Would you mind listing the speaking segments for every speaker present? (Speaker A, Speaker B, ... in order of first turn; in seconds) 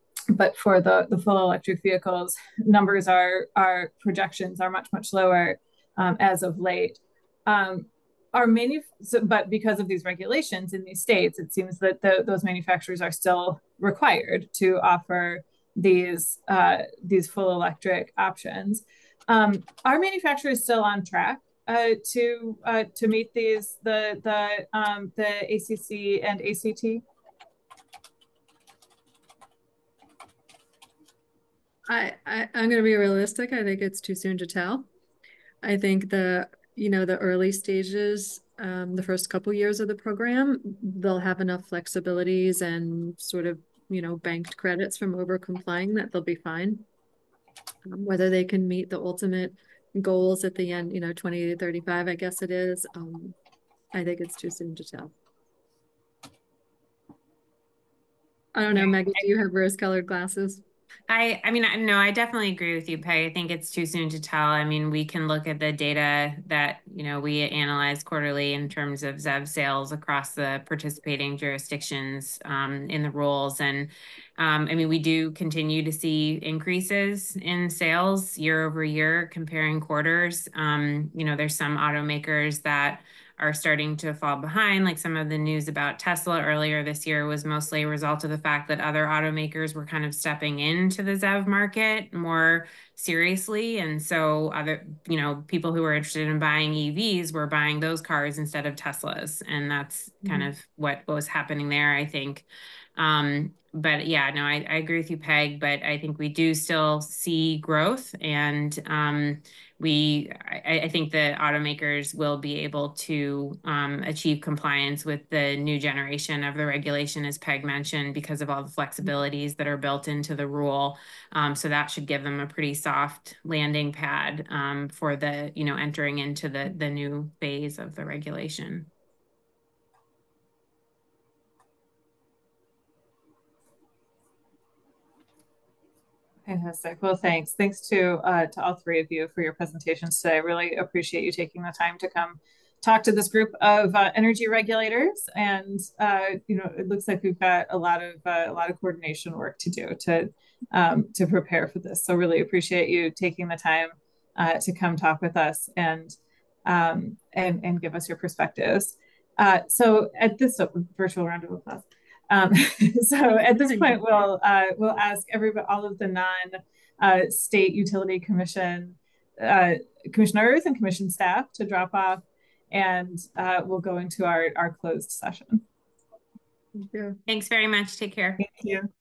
Speaker A: 0.3-27.0, 136.4-175.7, 178.4-178.9
Speaker B: 31.9-34.9, 35.6-46.9, 47.8-53.3, 53.9-55.1, 58.5-60.6, 163.3-164.0, 176.8-177.2
Speaker C: 61.1-102.4, 103.0-128.9, 177.3-178.5